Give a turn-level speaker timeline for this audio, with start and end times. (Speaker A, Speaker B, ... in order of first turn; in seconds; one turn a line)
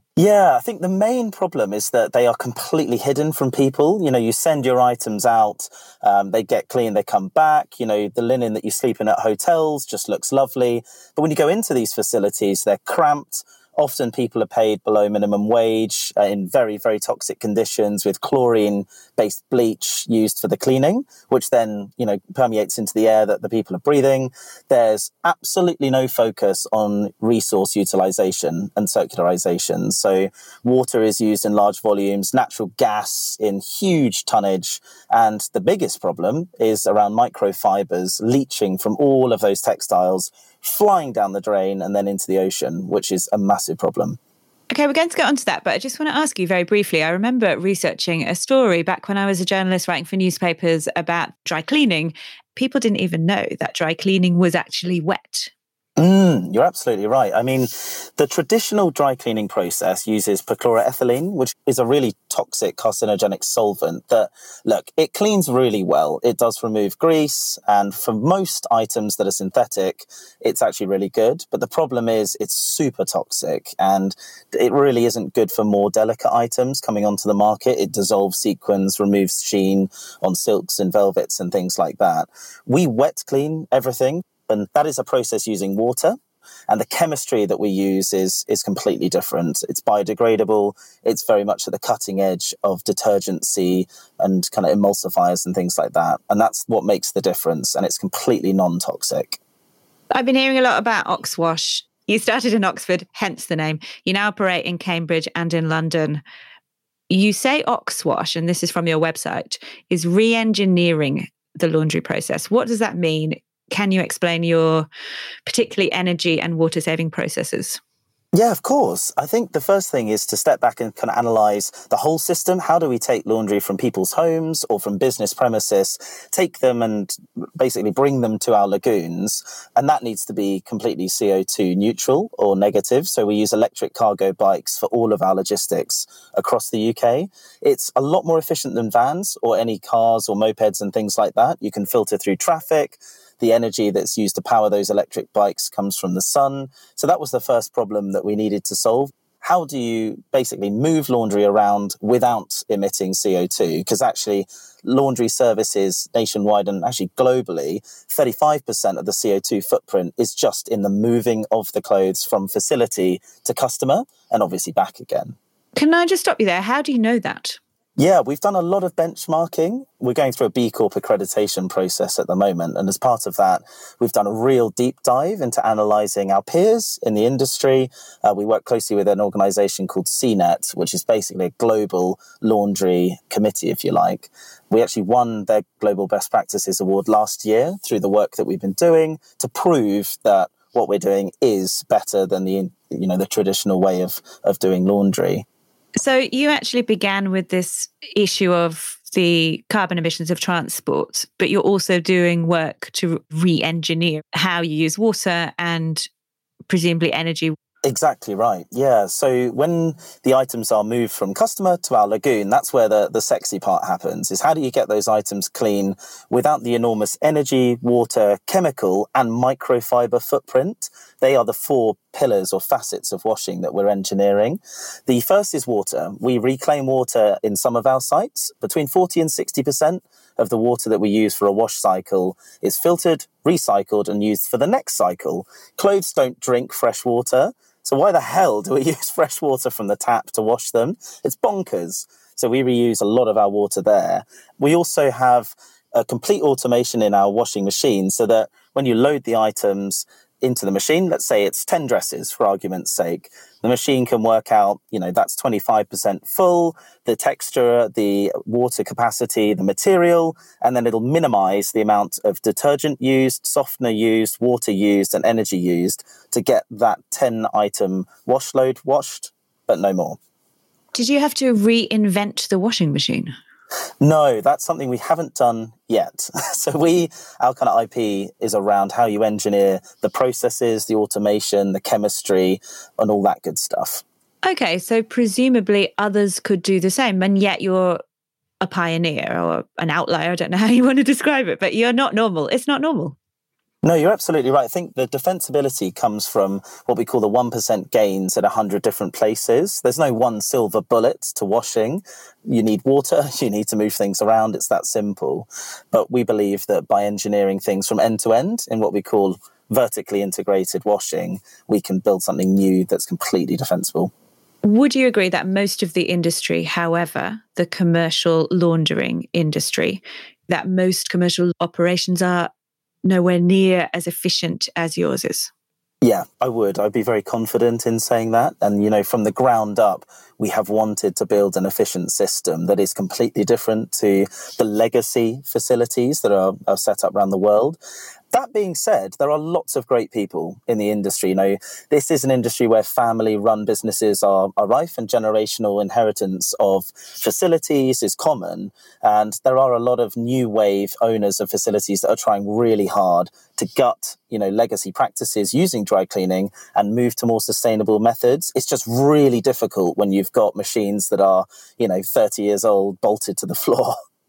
Speaker A: 0.2-44.2
Speaker B: 44.7-55.5
Speaker A: 56.0-86.2
Speaker A: 86.7-99.4
Speaker B: 100.1-106.2
Speaker B: 107.1-114.9
Speaker B: 115.5-117.8
Speaker A: 118.3-165.4
Speaker B: 165.8-167.6
Speaker A: 168.0-195.4
Speaker B: 196.0-206.1
Speaker B: 206.7-207.6
Speaker A: 207.8-270.2
Speaker B: 270.9-273.3
Speaker A: 274.0-284.0
Speaker B: 284.4-288.0
Speaker B: 288.6-293.2
Speaker A: 293.8-314.1
Speaker B: 314.6-322.5
Speaker B: 323.0-325.5
Speaker A: 326.0-337.8
Speaker A: 338.3-364.0